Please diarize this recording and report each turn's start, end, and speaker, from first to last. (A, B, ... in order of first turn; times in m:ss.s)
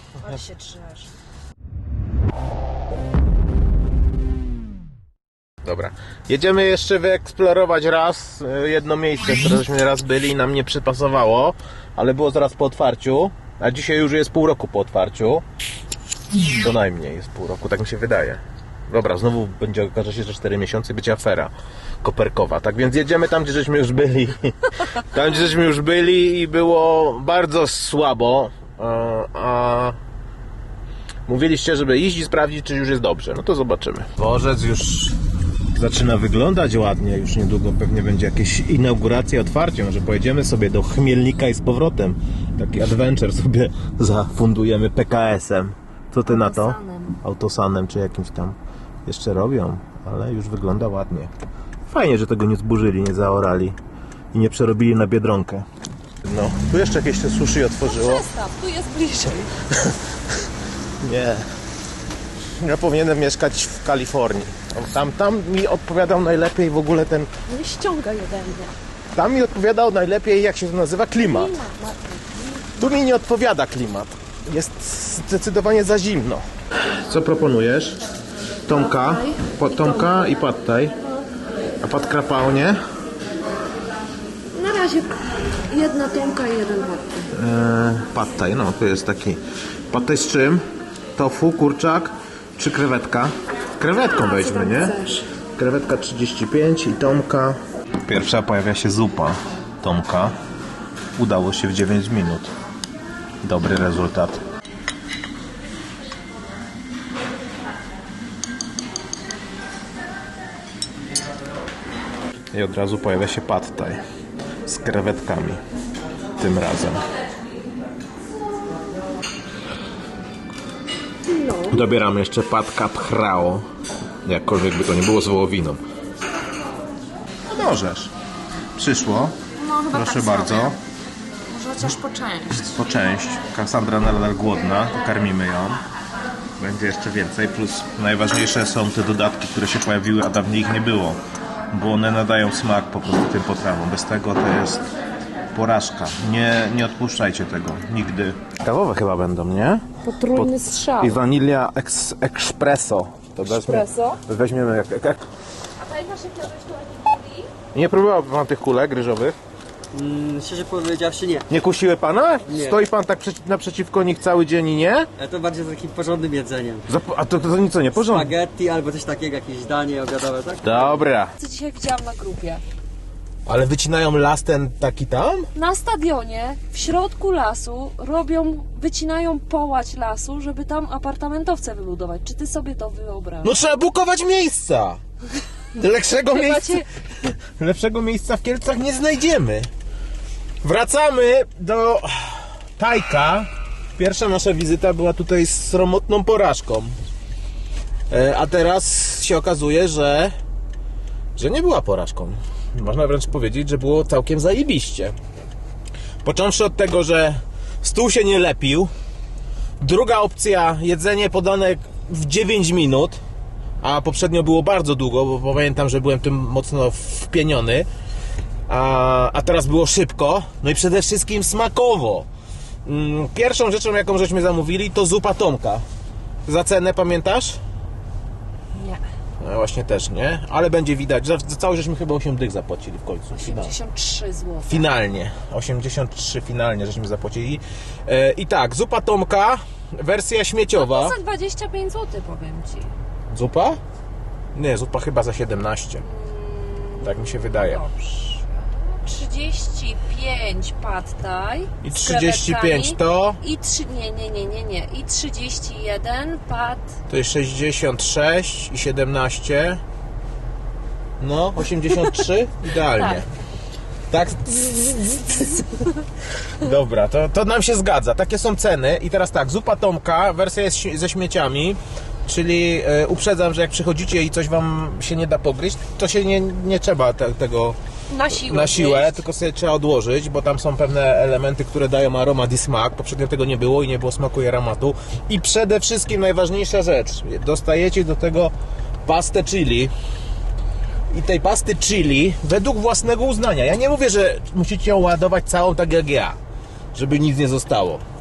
0:00.2-0:01.1 A
0:05.6-0:15.4 B
0:16.4-0:30.0 B
0:31.3-0:35.2 B
0:35.7-0:51.3 B
0:46.2-0:47.1 A
0:51.9-0:53.8 B
0:54.3-0:55.6 B
0:56.2-0:58.3 B
0:57.8-0:59.6 A
1:01.0-1:01.5 B
1:02.6-1:07.3 B
1:07.5-1:08.7 A
1:09.1-1:11.6 B
1:11.3-1:12.6 A
1:12.8-1:16.4 B
1:17.0-1:18.0 B
1:18.7-1:21.0 B
1:18.8-1:20.1 A
1:21.8-1:22.8 B
1:24.5-1:27.3 A
1:27.3-1:30.6 B
1:31.2-1:35.0 B
1:34.1-1:35.3 A
1:35.6-1:40.4 B
1:41.2-1:42.5 B
1:43.4-1:44.4 B
1:52.5-1:54.0 B
1:54.6-1:55.6 B
1:56.4-1:57.0 B
2:01.3-2:01.8 A
2:01.7-2:03.6 B
2:04.2-2:05.8 B
2:07.4-2:08.1 B
2:08.7-2:09.4 B
2:09.6-2:10.8 A
2:09.9-2:10.8 B
2:11.5-2:12.8 A
2:12.6-2:15.8 B
2:16.6-2:21.2 B
2:21.7-2:24.8 B
2:25.5-2:35.2 B
2:30.0-2:31.2 A
2:33.4-2:34.2 A
2:35.8-2:37.5 A
2:37.7-2:39.4 B
2:39.9-2:41.4 C
2:41.5-2:45.1 B
2:42.5-2:42.8 C
2:45.2-2:46.8 C
2:46.9-2:48.3 B
2:48.0-2:51.0 C
2:50.6-2:51.3 B
2:51.4-2:52.6 A
2:53.4-2:55.5 B
2:55.5-3:03.7 A
3:03.4-3:05.0 B
3:05.7-3:09.7 B
3:06.2-3:06.9 A
3:10.6-3:17.0 B
3:18.1-3:20.3 B
3:21.4-3:25.1 B
3:26.2-3:28.9 B
3:29.8-3:33.2 B
3:33.8-3:37.9 B
3:38.7-3:42.3 B
3:42.8-3:45.8 B
3:46.4-3:47.6 B
3:48.7-3:49.0 A
3:49.4-3:53.8 B
3:53.3-3:54.9 A
3:54.6-4:01.2 B
4:00.7-4:02.9 A
4:03.3-4:03.8 B
4:04.5-4:06.0 B
4:06.0-4:16.9 A
4:07.0-4:07.8 B
4:11.8-4:13.4 B
4:17.1-4:19.8 B
4:21.2-4:23.3 B
4:24.1-4:25.8 B
4:26.5-4:37.8 B
4:38.1-4:39.2 A
4:38.3-4:48.5 B
4:49.0-4:49.9 B
4:51.1-4:56.4 B
4:56.9-4:58.0 B